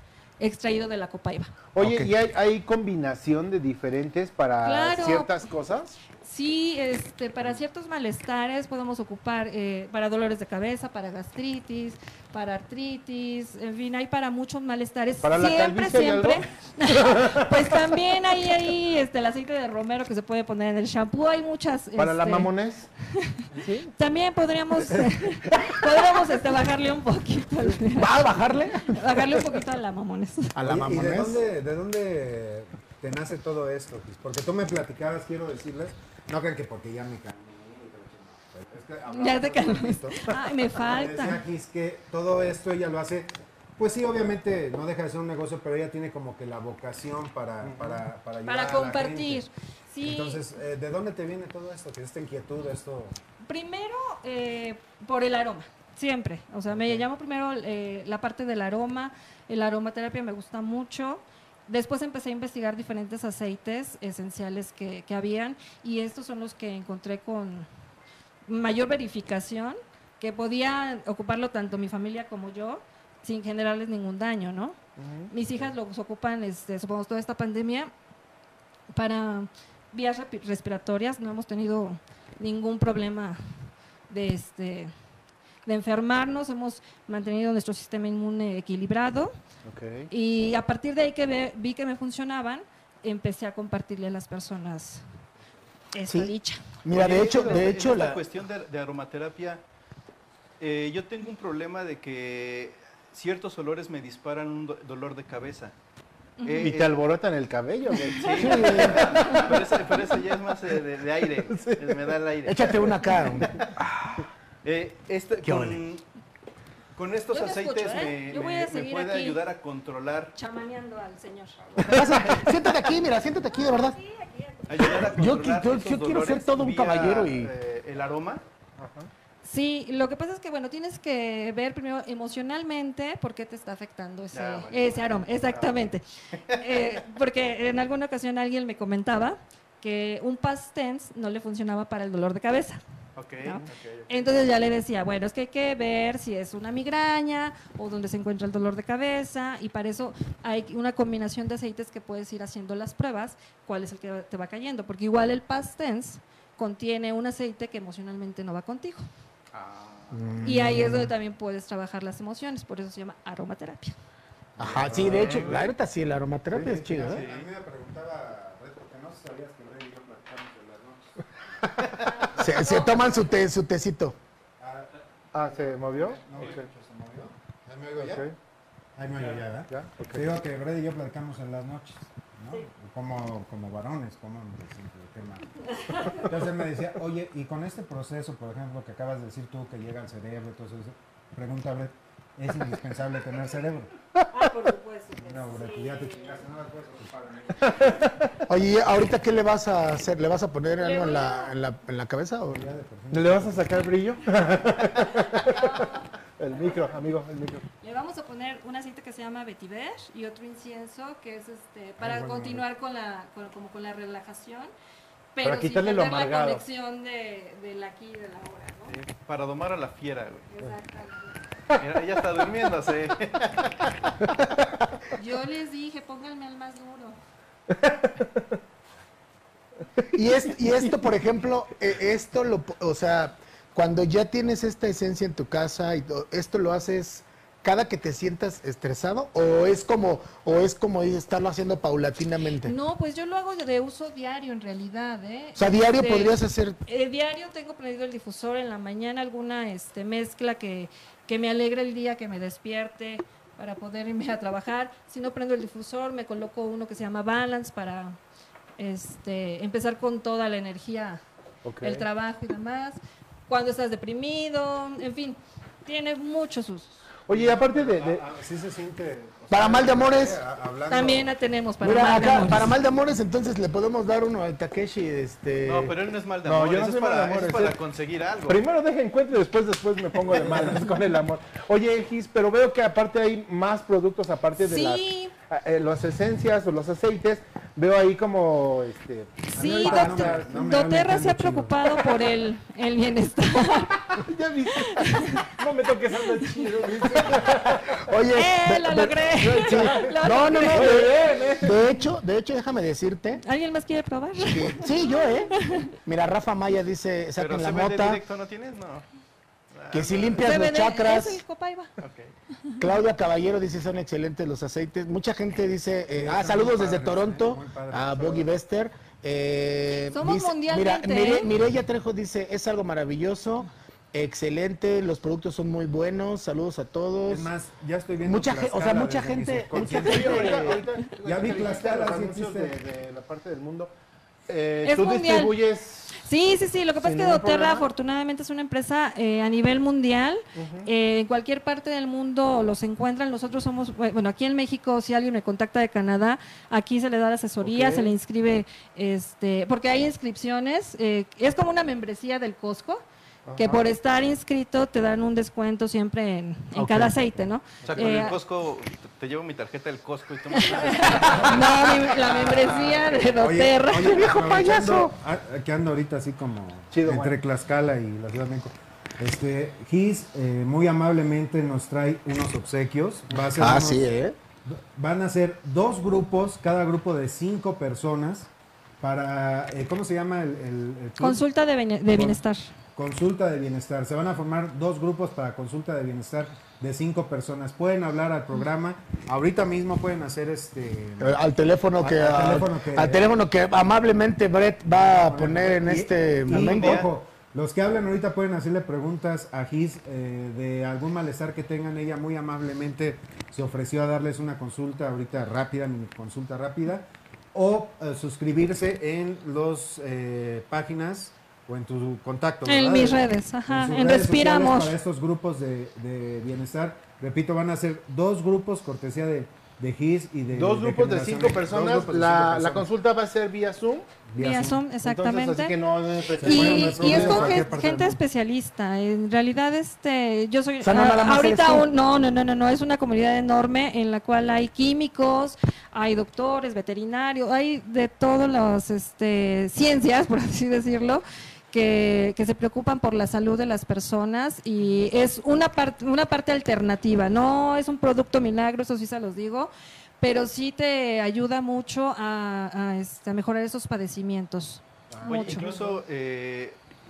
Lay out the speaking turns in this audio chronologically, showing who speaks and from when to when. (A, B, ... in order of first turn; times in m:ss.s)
0:00.4-0:01.5 A
0:01.7-0:06.0 B
0:01.8-0:02.1 C
0:04.6-0:05.4 A
0:06.2-0:22.5 A
0:15.2-0:17.8 B
0:22.0-0:22.9 B
0:23.5-0:23.9 B
0:23.9-0:28.2 A
0:27.8-0:29.0 C
0:28.8-0:30.5 A
0:30.5-0:31.4 C
0:30.6-0:49.5 D
0:39.1-0:41.4 A
0:47.6-0:48.0 B
0:48.4-0:50.4 A
0:50.0-0:53.2 D
0:53.4-1:07.7 A
0:56.7-0:57.0 D
1:08.4-1:14.8 A
1:15.0-1:15.3 B
1:15.3-1:17.9 A
1:18.9-1:23.4 A
1:24.1-1:24.9 A
1:25.6-1:29.3 A
1:29.6-1:30.1 B
1:30.1-1:35.0 A
1:35.9-1:36.6 A
1:36.1-1:38.2 C
1:36.9-1:39.6 E
1:37.2-1:37.6 B
1:40.6-1:45.7 E
1:46.4-1:46.7 A
1:46.4-1:47.0 E
1:46.6-1:49.7 B
1:48.1-1:52.8 E
1:48.4-1:49.2 C
1:51.5-1:52.2 B
1:52.4-1:54.2 C
1:53.4-1:53.6 E
1:54.6-1:56.0 E
1:55.4-1:55.8 C
1:56.9-2:00.3 E
1:57.3-1:59.4 A
2:00.4-2:01.6 A
2:01.8-2:04.0 C
2:01.8-2:02.5 E
2:03.5-2:05.1 A
2:04.7-2:08.4 E
2:04.8-2:07.5 C
2:08.8-2:09.1 B
2:09.4-2:22.8 A
2:14.3-2:15.8 E
2:16.4-2:16.6 E
2:23.2-2:24.4 E
2:23.4-2:39.1 A
2:39.5-2:40.2 E
2:40.1-2:41.1 C
2:40.4-2:44.0 A
2:44.6-2:45.6 D
2:44.6-2:47.2 C
2:45.0-2:45.5 B
2:45.2-2:45.6 E
2:46.5-2:46.8 B
2:46.6-2:51.9 D
2:47.0-2:47.5 E
2:52.2-2:53.1 A
2:52.4-2:54.2 C
2:54.6-2:58.3 D
2:55.3-2:56.7 B
2:58.0-2:58.3 B
2:59.0-3:05.5 D
2:59.7-3:00.2 B
3:05.7-3:06.2 A
3:06.0-3:13.9 D
3:14.3-3:16.5 A
3:15.2-3:17.9 D
3:17.6-3:18.3 B
3:18.5-3:22.6 C
3:20.8-3:21.5 A
3:22.5-3:23.8 D
3:23.1-3:25.7 B
3:25.2-3:26.1 A
3:26.4-3:27.6 B
3:27.8-3:34.7 A
3:32.0-3:32.6 D
3:35.3-3:39.0 A
3:35.4-3:36.6 B
3:38.9-3:40.5 E
3:40.5-3:41.4 A
3:41.8-3:43.7 E
3:45.1-3:47.2 A
3:47.7-3:48.2 B
3:50.1-4:02.7 C
4:02.6-4:18.2 A
4:05.5-4:06.8 C
4:18.8-4:21.2 A
4:21.6-4:22.0 B
4:21.8-4:27.1 A
4:27.3-4:28.2 B
4:27.3-4:31.3 D
4:29.5-4:30.4 C
4:30.9-4:32.8 A
4:31.8-4:36.0 C
4:35.6-4:38.6 E
4:36.4-4:37.8 B
4:38.4-4:50.5 B
4:40.4-4:40.8 D
4:44.6-4:45.3 A
4:49.5-4:54.2 A
4:49.5-4:51.9 D
4:54.1-4:58.1 B
4:54.8-4:55.4 A
4:58.0-5:03.4 C
4:58.3-5:00.9 A
4:59.4-5:01.8 B
5:03.4-5:05.9 A
5:04.4-5:08.2 C
5:07.4-5:09.0 E
5:09.7-5:10.5 E
5:09.9-5:11.4 C
5:10.4-5:11.9 A
5:12.0-5:12.3 E
5:12.8-5:27.5 C
5:16.1-5:18.6 D
5:20.1-5:21.5 A
5:27.3-5:32.7 D
5:28.2-5:30.8 C
5:29.7-5:33.9 B
5:34.5-5:36.2 B
5:34.8-5:35.6 A
5:36.1-5:53.0 A
5:37.0-5:37.9 B
5:40.6-5:40.9 B
5:47.6-5:48.1 B
5:53.4-5:53.8 B
5:53.6-5:58.4 A
5:56.7-5:57.4 C
5:57.8-6:01.8 E
5:57.8-5:58.2 B
6:00.5-6:04.2 A
6:03.4-6:14.1 D
6:04.0-6:05.1 C
6:06.9-6:07.4 B
6:13.5-6:14.4 C
6:14.6-6:21.4 D
6:21.2-6:22.7 A
6:22.1-6:22.4 D
6:23.0-6:31.4 D
6:31.2-6:37.0 C
6:32.0-6:33.4 D
6:35.1-7:02.9 D
6:36.5-6:37.1 E
6:52.6-6:55.0 A
7:00.5-7:04.1 B
7:04.3-7:04.8 D
7:04.4-7:05.8 A
7:05.0-7:07.8 B
7:06.4-7:08.2 D
7:06.4-7:35.7 A
7:10.8-7:11.9 C
7:35.1-7:36.0 B
7:35.2-7:36.8 E